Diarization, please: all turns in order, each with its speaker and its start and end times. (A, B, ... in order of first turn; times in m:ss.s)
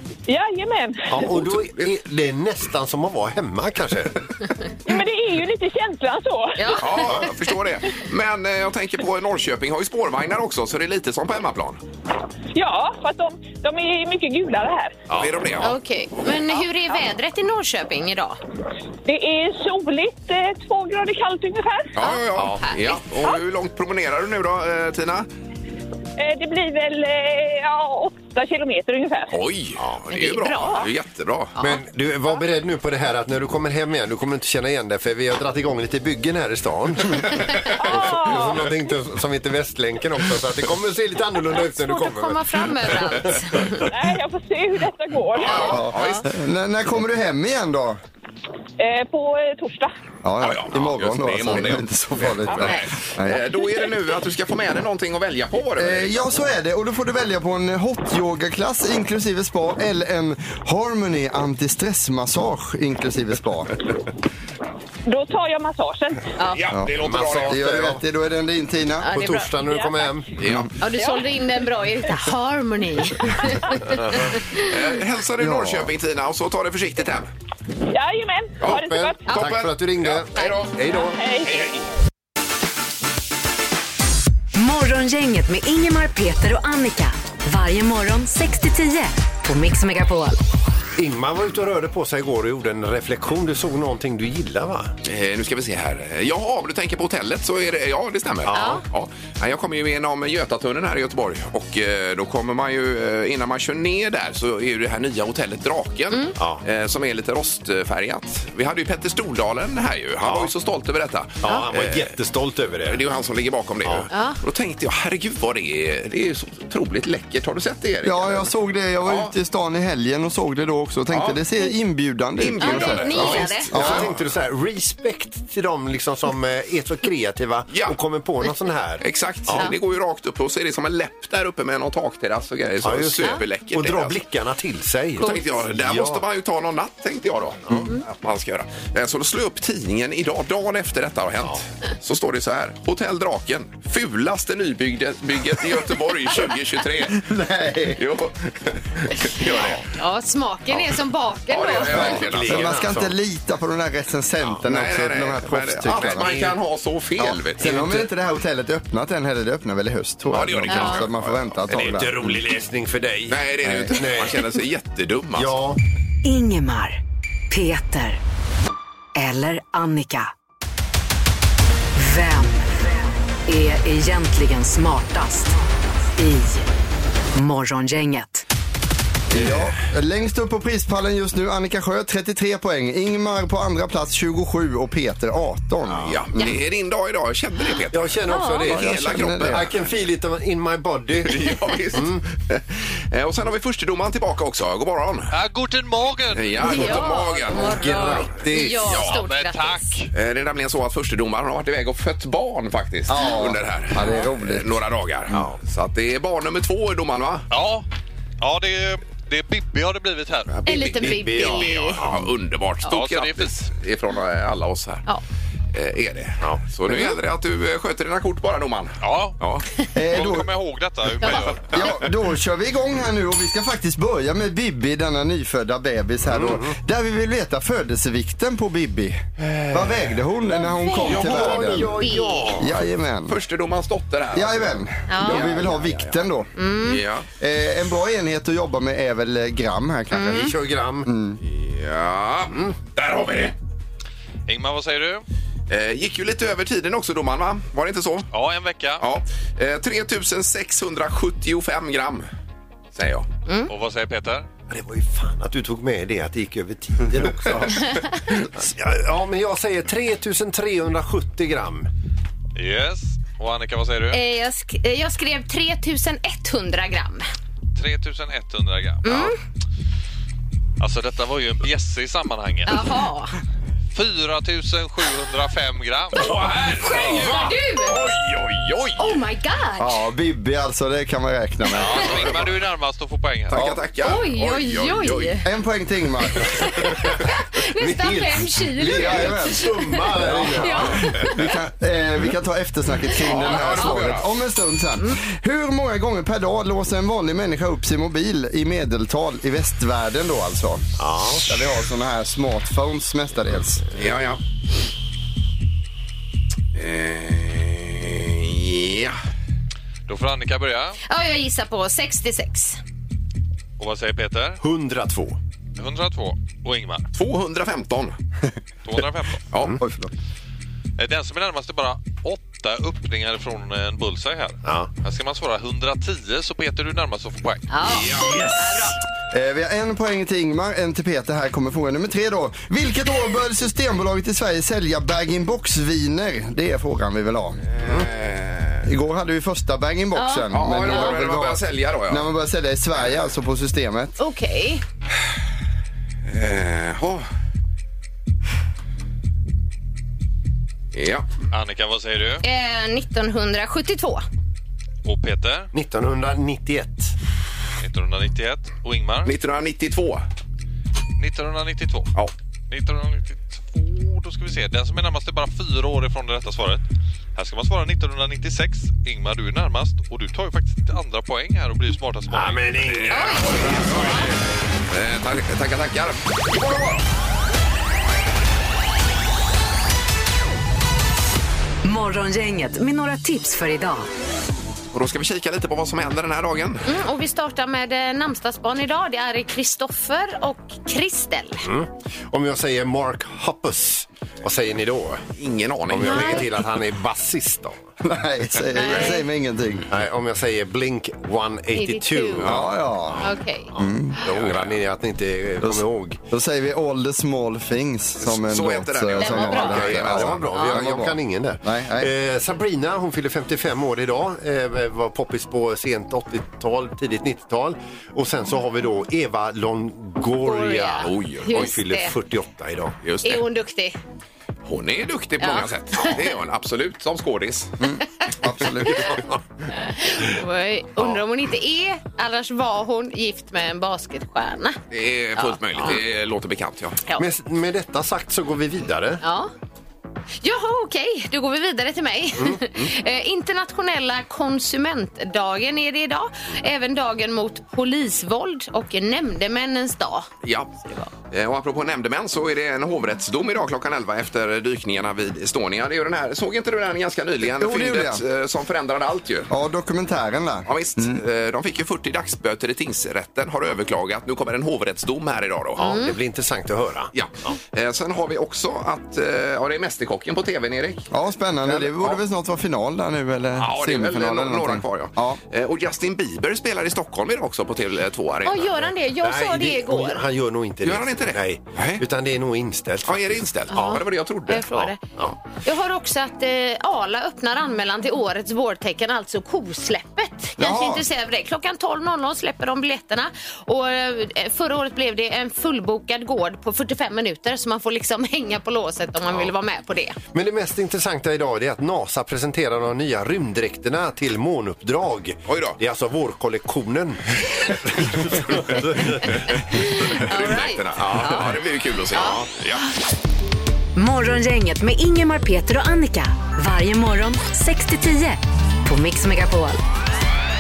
0:00.3-0:01.3 A
0:01.1-0:04.3 B
0:01.3-0:01.9 C
0:04.9-0:07.0 A
0:06.6-0:07.4 D
0:06.8-0:11.8 C
0:07.0-0:07.3 B
0:12.6-0:15.0 A
0:15.2-0:15.8 C
0:15.6-0:18.4 D
0:19.0-0:22.0 A
0:22.0-0:25.3 C
0:22.0-0:23.4 D
0:26.2-0:29.4 A
0:29.3-0:31.5 C
0:30.1-0:30.9 D
0:31.6-0:43.6 B
0:37.8-0:38.6 A
0:41.7-0:43.9 D
0:43.9-0:45.8 A
0:45.4-0:46.3 C
0:45.5-0:46.2 D
0:45.6-0:48.0 E
0:48.8-0:50.0 A
0:50.2-0:53.4 E
0:50.4-0:56.2 C
0:55.8-1:03.7 E
1:05.1-1:06.4 A
1:06.4-1:06.7 D
1:06.5-1:07.8 C
1:06.8-1:09.1 E
1:06.9-1:08.0 B
1:09.0-1:10.0 D
1:09.1-1:10.4 B
1:10.4-1:10.8 C
1:10.8-1:14.7 D
1:10.9-1:11.4 A
1:14.5-1:17.3 C
1:15.4-1:15.9 E
1:17.9-1:19.5 A
1:18.6-1:20.7 C
1:18.7-1:21.2 B
1:20.4-1:20.7 D
1:21.0-1:21.7 A
1:21.4-1:21.8 C
1:24.6-1:30.4 F
1:31.0-1:34.9 B
1:35.0-1:52.1 C
1:38.4-1:38.8 B
1:38.5-1:38.8 D
1:46.4-1:46.6 B
1:50.2-1:50.5 B
1:51.4-1:53.0 B
1:52.8-1:58.5 C
1:54.1-1:54.4 D
1:58.0-2:04.1 E
1:59.0-1:59.3 C
2:01.1-2:01.4 C
2:02.4-2:04.2 C
2:02.6-2:03.8 D
2:03.7-2:09.7 B
2:07.7-2:08.0 C
2:09.0-2:14.2 C
2:12.8-2:16.2 B
2:15.2-2:15.5 D
2:15.2-2:27.2 C
2:27.1-2:28.0 E
2:28.0-2:29.8 C
2:29.5-2:32.2 D
2:31.5-2:32.8 C
2:31.7-2:33.1 B
2:31.8-2:36.4 E
2:34.6-2:38.1 C
2:36.0-2:36.6 B
2:37.2-2:42.4 E
2:40.3-2:41.9 C
2:40.7-2:41.1 D
2:41.7-2:44.6 B
2:43.3-2:45.5 C
2:45.4-2:45.8 B
2:46.2-2:47.0 F
2:47.5-2:48.2 F
2:49.2-2:50.3 F
2:52.0-2:52.7 F
2:53.5-2:55.6 F
2:56.1-2:56.7 F
2:57.4-2:58.4 F
2:59.3-3:06.3 E
3:06.0-3:09.7 C
3:07.9-3:12.2 B
3:08.3-3:08.7 D
3:08.6-3:09.7 E
3:11.2-3:15.3 C
3:15.3-3:17.1 G
3:16.3-3:18.3 C
3:16.6-3:19.9 D
3:17.5-3:18.9 B
3:18.8-3:19.2 C
3:19.0-3:20.1 G
3:20.1-3:27.5 C
3:23.1-3:24.8 E
3:25.3-3:25.6 B
3:27.5-3:27.8 G
3:28.4-3:30.8 G
3:30.5-3:35.0 C
3:30.7-3:32.0 D
3:31.0-3:32.3 B
3:32.9-3:33.6 G
3:35.7-3:39.6 C
3:36.4-3:37.1 B
3:39.0-3:39.4 G
3:40.0-3:40.5 E
3:40.1-3:42.0 G
3:41.7-3:51.9 E
3:46.3-3:46.7 B
3:49.6-3:50.2 C
3:50.6-3:52.7 B
3:50.8-3:52.6 D
3:52.6-3:53.4 E
3:53.3-3:56.2 C
3:54.3-3:56.5 E
3:55.1-3:55.6 D
3:56.6-3:57.0 D
3:56.8-3:57.3 C
3:57.4-4:00.5 E
4:00.1-4:00.5 D
4:00.2-4:01.1 B
4:01.0-4:01.4 E
4:01.4-4:03.6 C
4:04.5-4:05.2 G
4:05.7-4:08.3 C
4:08.3-4:09.0 G
4:09.0-4:12.3 C
4:13.0-4:13.3 C
4:13.7-4:14.5 G
4:14.7-4:21.9 B
4:17.8-4:18.2 D
4:22.6-4:24.2 G
4:24.1-4:27.3 D
4:27.8-4:29.3 G
4:29.0-4:29.4 D
4:30.8-4:33.0 G
4:32.7-4:33.3 D
4:33.9-4:37.5 G
4:36.2-4:39.2 C
4:36.8-4:38.0 D
4:39.0-4:40.0 D
4:39.8-4:42.4 E
4:41.7-4:43.6 G
4:42.0-4:42.5 C
4:43.5-4:45.4 C
4:43.5-4:43.8 E
4:44.0-4:45.5 D
4:45.4-4:46.7 E
4:46.4-4:51.4 D
4:47.8-4:51.4 B
4:48.9-5:03.8 E
4:53.2-4:54.3 C
4:53.3-4:53.8 D
5:01.0-5:01.5 B
5:03.9-5:04.4 C
5:06.7-5:09.2 C
5:10.1-5:11.0 G
5:11.1-5:12.8 D
5:13.8-5:14.6 G
5:14.6-5:15.4 B
5:15.8-5:17.1 G
5:17.1-5:18.2 C
5:18.8-5:19.4 G
5:19.8-5:20.1 E
5:21.0-5:28.1 G
5:24.6-5:24.9 B
5:27.7-5:29.0 D
5:27.9-5:28.9 C
5:29.3-5:37.7 E
5:37.7-5:38.9 C
5:38.8-5:44.2 E
5:40.2-5:41.2 D
5:40.5-5:42.2 C
5:44.2-5:44.8 D
5:46.3-5:47.2 C
5:50.9-5:51.3 C
5:51.5-5:52.4 G
5:52.4-5:54.2 D
5:55.0-5:55.7 G
5:55.7-5:57.2 B
5:57.8-5:59.3 G
5:59.2-6:00.2 C
6:01.2-6:02.1 G
6:02.7-6:06.8 G
6:07.4-6:13.0 G
6:12.3-6:13.4 B
6:12.9-6:14.2 C
6:13.1-6:14.3 D
6:14.9-6:17.0 C
6:21.8-6:24.1 F
6:24.9-6:26.9 C
6:26.9-6:31.7 D
6:31.6-6:35.2 B
6:35.4-6:36.5 C
6:35.9-6:37.8 B
6:36.0-6:36.5 D
6:38.0-6:39.9 E
6:38.8-6:39.2 D
6:39.9-6:42.6 B
6:41.7-6:42.6 D
6:42.4-6:44.2 E
6:43.2-6:46.2 B
6:43.2-6:43.7 D
6:44.3-6:44.8 C
6:45.6-6:52.1 E
6:48.2-6:50.6 C
6:49.2-6:50.0 D
6:49.6-7:03.0 B
7:00.4-7:02.1 D
7:01.0-7:01.7 C
7:03.0-7:03.4 C
7:03.2-7:04.0 D
7:04.7-7:07.7 C
7:05.4-7:06.2 D
7:07.8-7:09.2 E
7:09.0-7:09.4 B
7:09.8-7:14.8 D
7:14.9-7:17.0 C
7:15.4-7:16.0 D
7:17.2-7:19.2 B
7:19.2-7:19.5 D
7:20.4-7:30.3 D
7:22.4-7:22.9 B
7:30.4-7:39.5 C
7:37.4-7:38.2 E
7:39.5-7:41.2 E
7:40.7-7:46.0 C
7:45.8-7:46.2 D
7:45.8-7:47.6 B
7:47.1-7:51.1 C
7:51.1-7:55.4 E
7:53.6-7:58.7 C
7:58.4-8:00.2 D
7:59.2-8:04.0 B
8:00.8-8:02.0 C
8:03.1-8:04.9 C
8:03.7-8:05.0 D
8:05.6-8:20.2 D
8:10.6-8:11.0 E
8:19.3-8:19.5 C
8:20.3-8:29.4 B
8:25.5-8:25.8 C
8:29.5-8:32.8 C
8:29.7-8:31.6 D
8:31.0-8:31.5 B
8:32.1-8:32.4 D
8:34.0-8:39.8 F